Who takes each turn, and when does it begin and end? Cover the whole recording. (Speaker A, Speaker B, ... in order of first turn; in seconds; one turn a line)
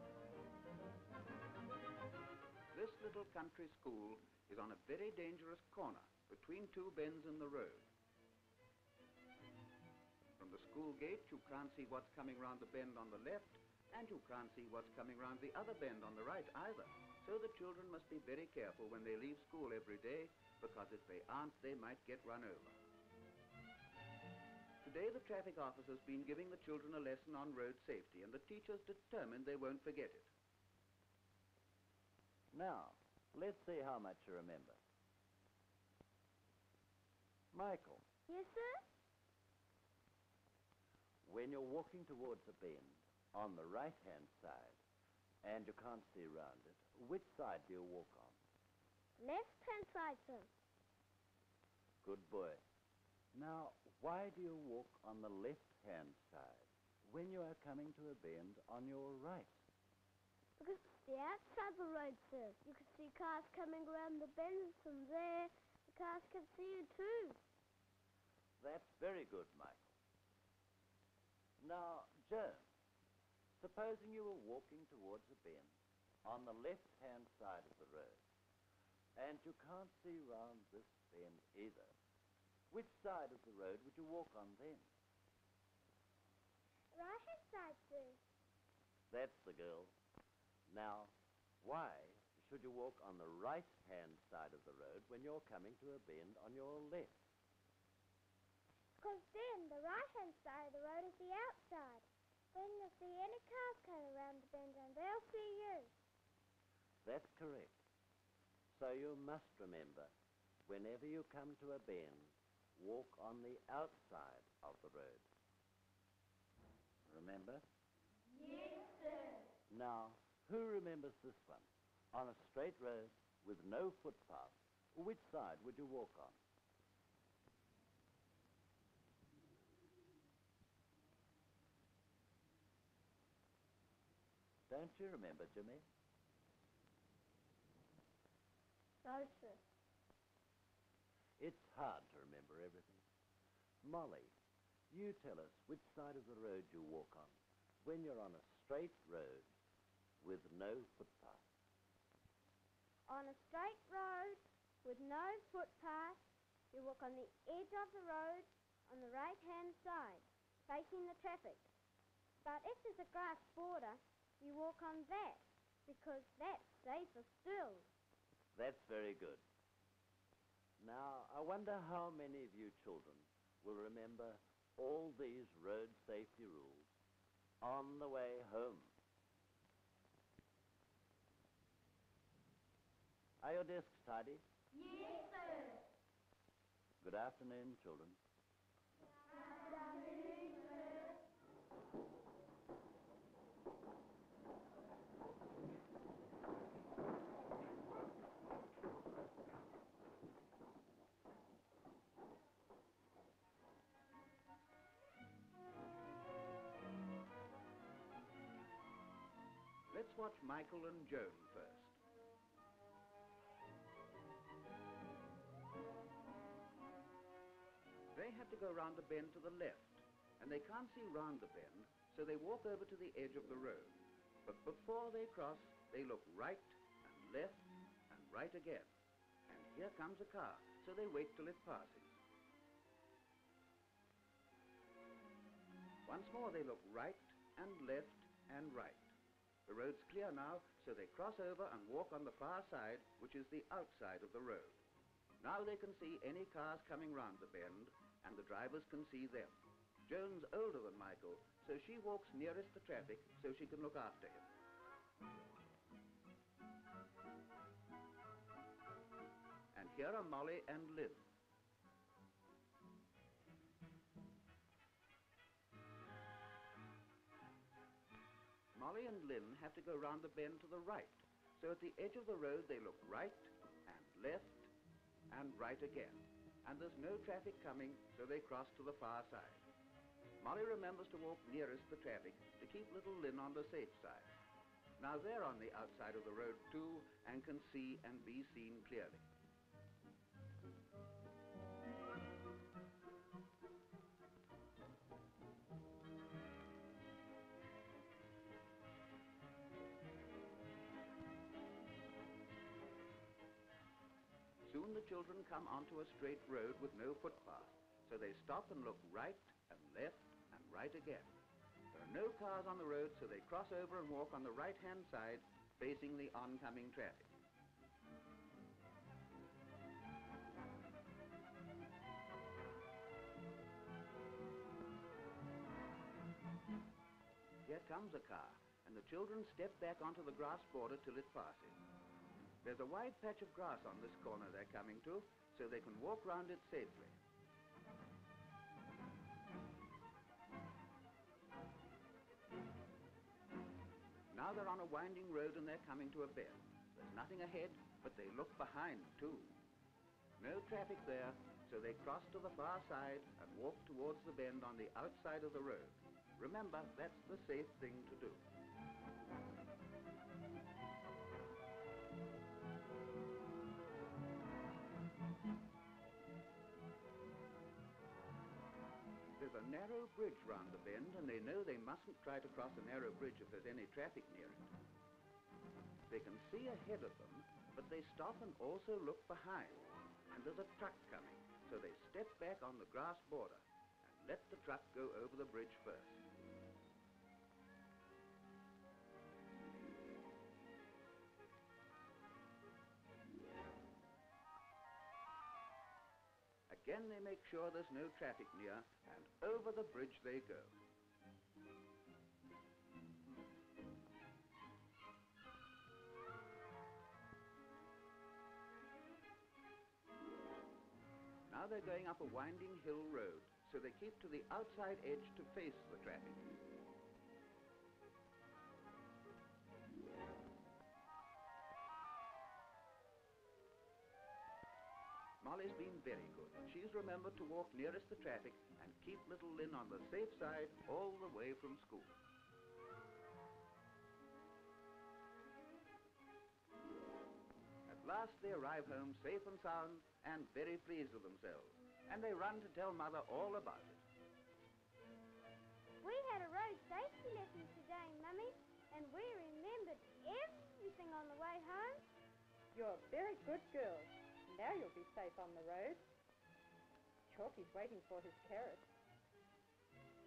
Speaker A: 2.7-7.9
Speaker A: 10.4-22.8
Speaker A: 24.8-30.3
Speaker B: 32.5-34.8
Speaker B: 37.5-38.0
Speaker C: 38.3-38.8
Speaker B: 41.2-44.8
Speaker B: 45.4-48.4
Speaker C: 49.2-50.5
Speaker B: 52.0-52.6
Speaker B: 53.3-59.5
Speaker C: 60.6-67.4
Speaker B: 68.6-69.9
Speaker B: 71.6-72.7
Speaker B: 73.6-75.7
Speaker B: 76.2-78.2
Speaker B: 79.2-81.9
Speaker B: 82.7-84.9
Speaker C: 86.9-88.2
Speaker B: 89.1-89.9
Speaker B: 90.7-97.2
Speaker C: 99.0-105.9
Speaker B: 107.0-107.7
Speaker B: 108.7-110.1
Speaker B: 110.7-115.2
Speaker B: 117.1-117.6
Speaker C: 118.5-119.4
Speaker B: 119.7-126.4
Speaker B: 134.7-135.8
Speaker C: 139.0-139.6
Speaker B: 141.4-143.0
Speaker B: 143.8-144.3
Speaker B: 144.9-149.5
Speaker B: 150.2-151.4
Speaker C: 153.1-156.2
Speaker C: 156.7-161.7
Speaker C: 162.4-167.9
Speaker B: 168.5-169.4
Speaker B: 170.8-176.9
Speaker B: 177.6-178.9
Speaker B: 183.4-184.4
Speaker C: 184.8-185.8
Speaker B: 187.0-188.2
Speaker C: 189.6-191.0
Speaker A: 209.9-211.9
Speaker A: 218.1-228.9
Speaker A: 229.5-232.2
Speaker A: 236.1-239.1
Speaker A: 239.7-244.8
Speaker A: 245.4-254.5
Speaker A: 259.7-261.2
Speaker A: 268.7-274.7
Speaker A: 275.3-279.6
Speaker A: 280.4-284.3
Speaker A: 285.0-289.2
Speaker A: 304.7-311.3
Speaker A: 311.9-317.3
Speaker A: 327.6-331.8
Speaker A: 332.6-337.2
Speaker A: 344.3-349.6
Speaker A: 350.4-358.4
Speaker A: 369.4-374.7
Speaker A: 376.1-386.2
Speaker A: 396.7-400.7
Speaker A: 411.5-416.5
Speaker A: 425.4-432.2
Speaker A: 437.9-444.0
Speaker C: 446.0-452.0
Speaker D: 452.7-456.1
Speaker D: 457.3-458.9